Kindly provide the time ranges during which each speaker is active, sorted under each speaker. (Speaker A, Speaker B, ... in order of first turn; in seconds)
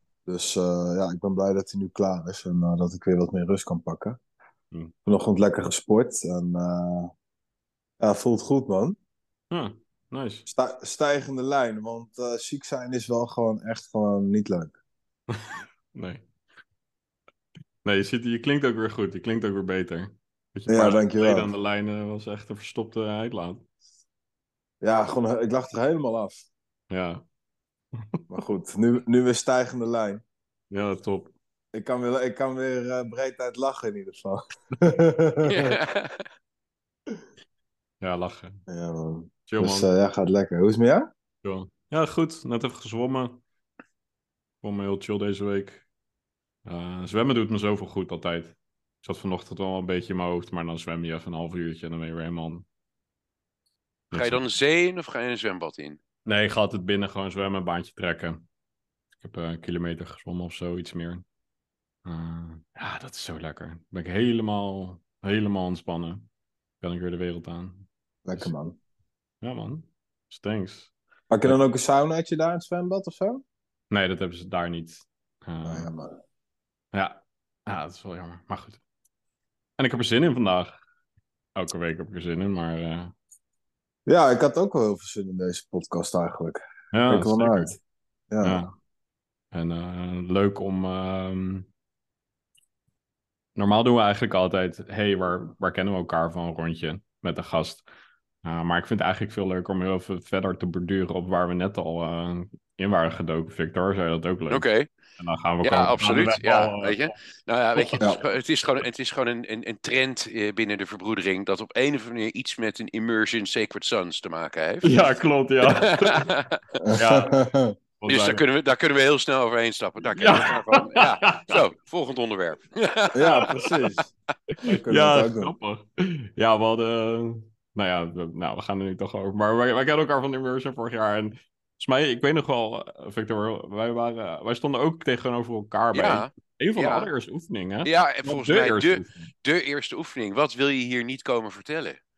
Speaker A: 0.3-4.2, 5.1-7.1, 8.0-9.0, 10.5-14.8, 20.7-21.5, 24.8-26.5, 28.3-30.2, 31.7-35.8, 38.7-41.1, 68.3-68.8, 71.3-73.4, 75.7-76.2, 84.1-87.8, 88.3-88.6, 116.8-117.8, 123.1-124.1, 124.7-125.5
Speaker B: 9.5-10.5, 15.3-16.2, 17.8-23.6, 26.9-27.2, 30.7-31.3, 38.0-38.6, 39.5-39.9, 41.4-43.4, 44.6-45.9, 46.6-52.7, 54.1-54.4, 56.3-58.5, 59.2-61.2, 62.0-66.2, 66.8-68.5, 69.4-70.9, 73.9-75.9, 76.9-78.8, 79.8-80.8, 81.6-83.1, 86.9-87.8, 88.4-88.7, 89.5-91.7, 93.6-97.8, 98.4-104.7, 105.2-107.1, 107.8-108.0, 114.8-116.3, 117.0-117.3, 118.0-118.4, 120.2-121.6, 124.7-139.3
Speaker C: 35.5-36.3, 54.1-56.0, 104.5-104.9, 105.6-115.0, 115.6-116.6, 118.1-123.5, 135.9-137.1, 137.8-142.0